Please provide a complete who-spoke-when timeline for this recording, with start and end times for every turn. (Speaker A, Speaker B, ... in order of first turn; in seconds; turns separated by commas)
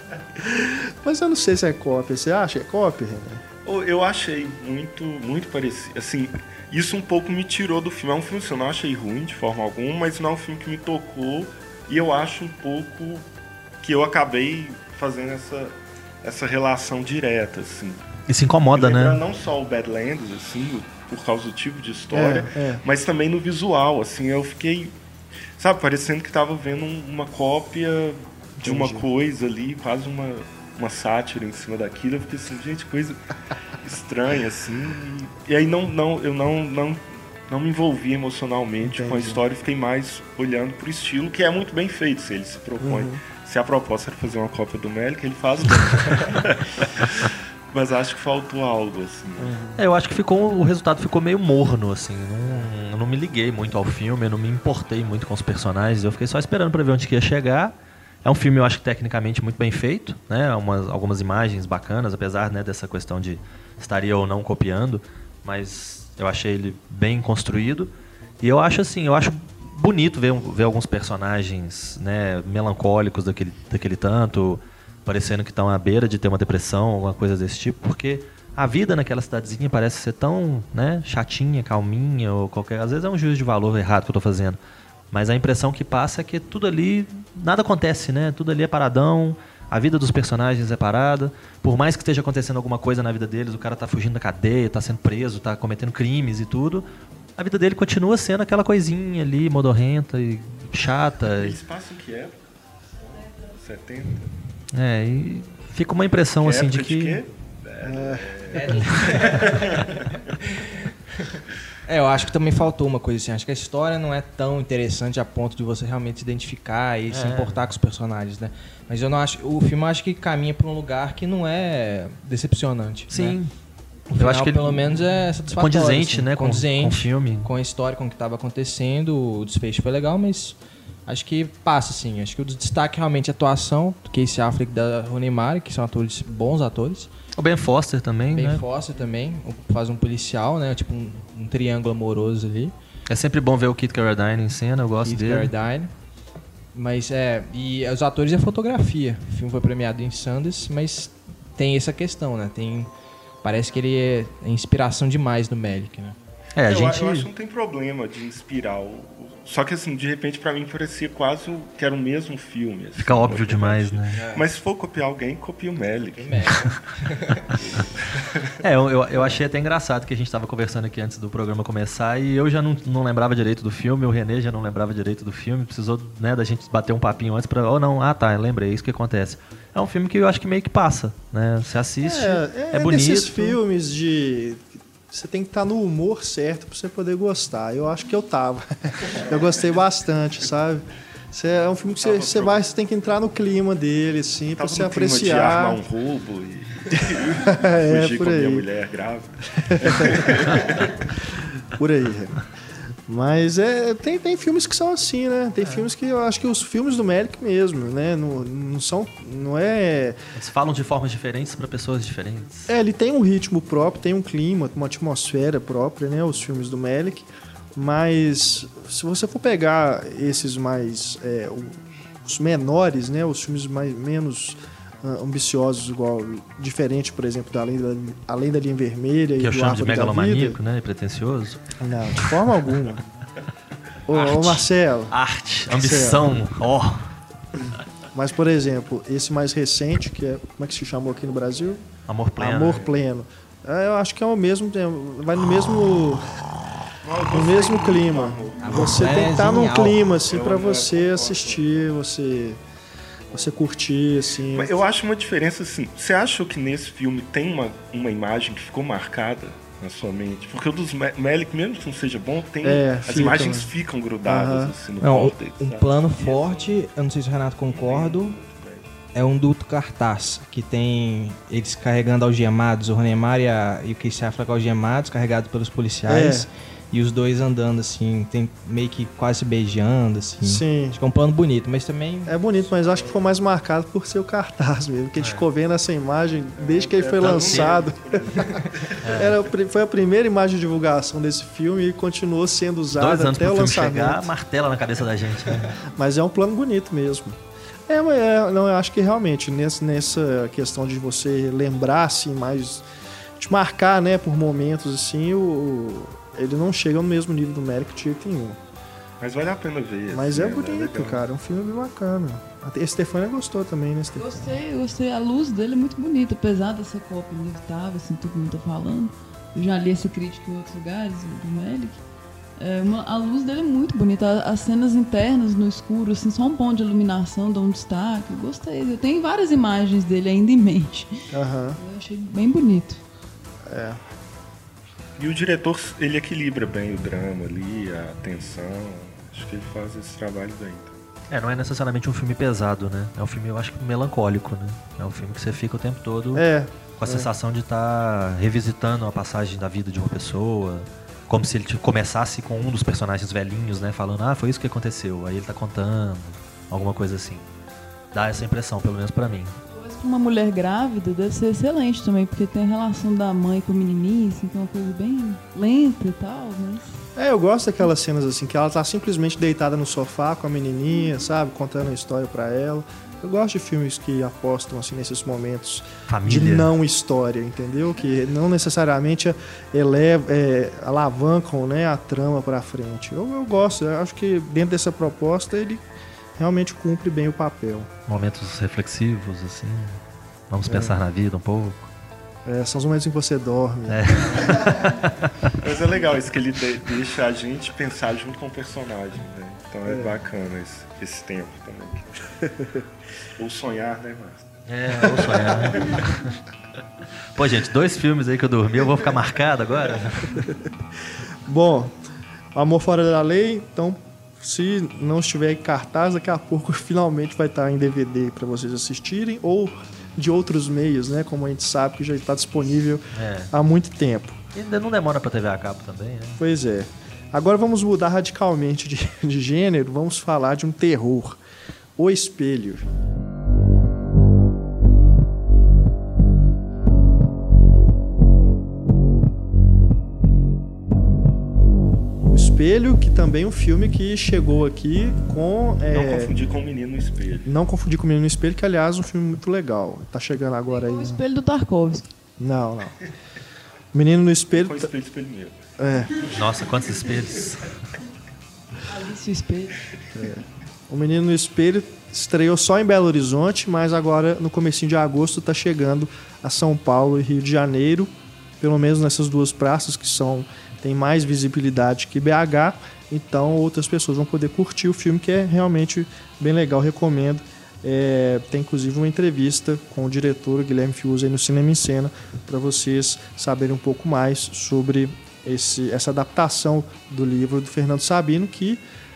Speaker A: 0.4-3.4, Speaker B: 3.6-13.3, Speaker B: 13.8-18.0, Speaker C: 18.3-19.2, Speaker B: 18.7-24.9, Speaker A: 22.1-22.8, Speaker B: 25.6-33.2, Speaker A: 28.6-29.1, Speaker B: 33.8-49.6, Speaker A: 38.8-39.4, Speaker A: 42.8-43.2, Speaker A: 49.4-49.8, Speaker C: 49.8-84.6, Speaker C: 85.1-96.9, Speaker C: 97.4-101.6, Speaker B: 101.4-102.4, Speaker B: 103.5-104.3, Speaker C: 104.7-107.2, Speaker B: 106.4-110.1, Speaker A: 107.8-108.3, Speaker D: 108.5-123.4, Speaker C: 108.7-109.7, Speaker C: 117.1-117.6, Speaker C: 123.1-123.5, Speaker D: 124.1-137.1, Speaker C: 124.2-127.5, Speaker C: 137.4-138.6, Speaker D: 138.3-142.7, Speaker C: 143.1-145.5, Speaker D: 145.0-145.9, Speaker D: 146.7-152.9, Speaker D: 153.4-156.2, Speaker C: 156.6-157.3, Speaker B: 156.6-166.6, Speaker C: 163.0-164.2, Speaker D: 164.1-164.4, Speaker D: 166.2-167.6, Speaker B: 167.6-168.6, Speaker C: 168.6-183.6, Speaker A: 182.0-195.8, Speaker B: 192.0-192.6, Speaker B: 194.6-201.0, Speaker A: 196.9-198.7, Speaker A: 199.6-200.7, Speaker A: 201.7-202.5, Speaker A: 203.1-210.2, Speaker C: 210.3-212.7, Speaker A: 212.7-230.6, Speaker C: 229.4-231.6, Speaker A: 231.8-233.0, Speaker A: 234.1-235.2, Speaker C: 234.1-237.1, Speaker A: 235.7-236.4, Speaker A: 238.1-241.8, Speaker C: 242.1-242.9, Speaker A: 242.4-246.4, Speaker B: 242.6-242.9, Speaker B: 247.0-249.4, Speaker A: 247.2-252.6, Speaker D: 248.6-250.1, Speaker B: 250.2-251.9, Speaker A: 253.3-254.8, Speaker B: 254.5-266.8, Speaker A: 262.6-263.7, Speaker A: 264.2-264.7, Speaker D: 265.0-268.4, Speaker B: 267.7-268.9, Speaker D: 269.1-282.4, Speaker A: 276.1-276.5, Speaker A: 280.4-281.0, Speaker A: 282.3-288.3, Speaker C: 285.2-285.4, Speaker B: 286.6-289.2, Speaker D: 288.3-288.7, Speaker C: 289.0-289.4, Speaker A: 289.1-294.3, Speaker C: 292.9-295.8, Speaker A: 295.9-302.9, Speaker A: 303.4-308.6, Speaker B: 309.2-311.3, Speaker A: 310.1-314.3, Speaker E: 314.2-322.0, Speaker E: 322.6-331.2, Speaker A: 331.3-331.8, Speaker E: 331.8-333.0, Speaker A: 333.7-334.0, Speaker B: 335.2-341.0, Speaker C: 341.3-346.4, Speaker A: 346.3-347.3, Speaker C: 347.0-357.4, Speaker C: 358.1-359.6, Speaker E: 359.7-366.8, Speaker A: 367.2-385.8, Speaker C: 376.1-376.7, Speaker A: 386.4-387.9, Speaker C: 388.1-391.9, Speaker A: 390.7-391.0, Speaker A: 392.5-394.9, Speaker C: 393.9-395.5, Speaker B: 395.6-402.1, Speaker A: 402.4-402.8, Speaker B: 403.4-406.1, Speaker C: 404.7-406.3, Speaker C: 407.4-410.5, Speaker A: 411.5-412.0, Speaker A: 412.5-424.4, Speaker C: 423.1-423.5, Speaker C: 424.5-426.4, Speaker A: 426.4-431.4, Speaker A: 432.0-432.9, Speaker A: 442.2-446.4, Speaker B: 445.9-447.5, Speaker A: 447.5-451.2, Speaker E: 450.7-452.1, Speaker A: 452.4-453.0, Speaker A: 453.9-454.9, Speaker B: 454.6-455.6, Speaker A: 455.8-456.3, Speaker C: 456.4-457.8, Speaker E: 458.9-459.8, Speaker A: 460.1-488.8